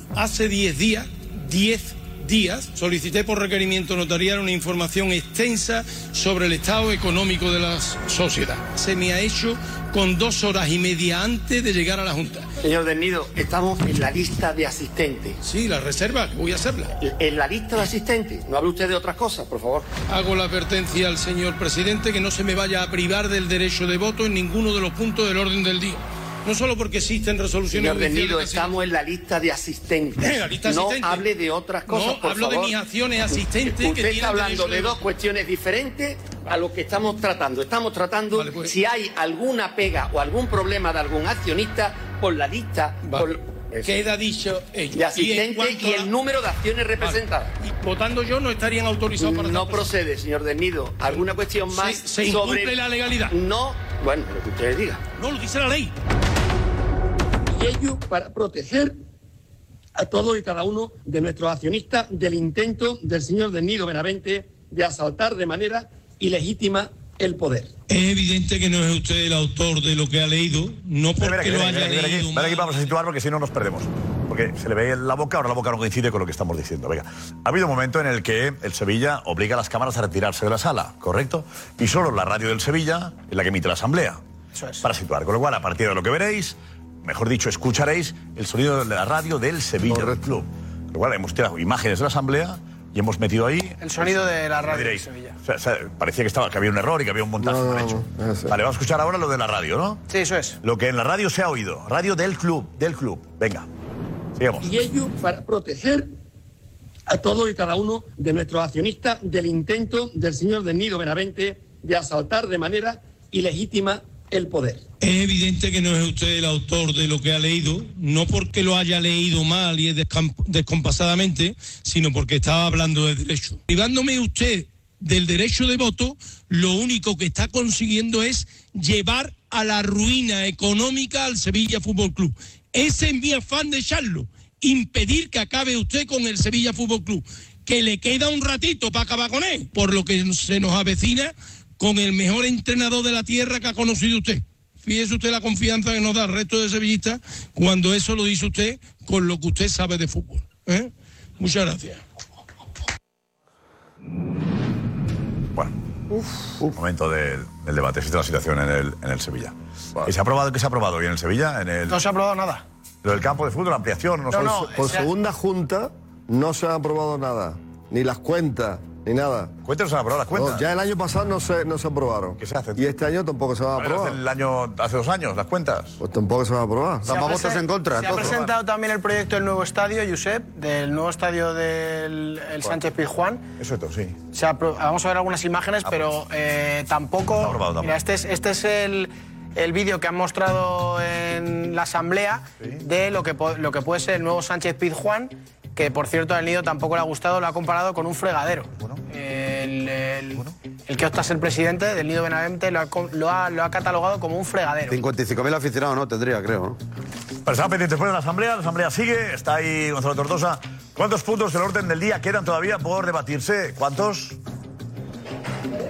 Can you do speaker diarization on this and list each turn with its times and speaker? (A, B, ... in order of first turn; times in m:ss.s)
0:00.1-0:12.5 A
0:12.6-0:15.4 B
0:15.4-0:17.0 A
0:17.0-0:19.9 B
0:20.1-0:28.8 A
0:27.7-0:32.8 B
0:30.2-0:31.3 A
0:31.9-0:35.0 A
0:33.3-0:44.0 B
0:38.3-0:38.8 A
0:43.8-0:46.1 A
0:44.9-0:47.5 B
0:47.0-0:49.9 A
0:49.2-0:55.0 B
0:51.7-0:53.4 A
0:55.2-0:55.9 A
0:57.5-0:59.0 B
1:00.0-1:07.7 B
1:07.9-1:12.8 A
1:11.2-1:24.2 C
1:24.6-1:24.8 D
1:24.8-1:40.0 C
1:29.9-1:30.2 E
1:33.8-1:35.4 D
1:37.4-1:38.5 E
1:40.1-1:40.6 D
1:40.6-1:43.7 C
1:44.4-1:44.8 C
1:44.6-1:46.1 B
1:47.1-1:54.8 B
1:55.0-2:32.0 A
2:36.7-2:42.0 C
2:41.9-2:42.6 D
2:43.0-2:44.9 C
2:44.3-2:45.1 D
2:44.4-2:49.5 E
2:49.6-2:50.7 C
2:50.3-2:54.2 E
2:52.4-2:52.9 C
2:53.8-2:56.0 C
2:56.0-2:57.3 E
2:57.1-2:58.4 F
2:57.1-3:03.4 D
3:03.6-3:04.2 C
3:04.3-3:25.0 D
3:05.8-3:06.2 C
3:07.4-3:08.0 C
3:24.9-3:26.8 F
3:27.5-3:34.4 C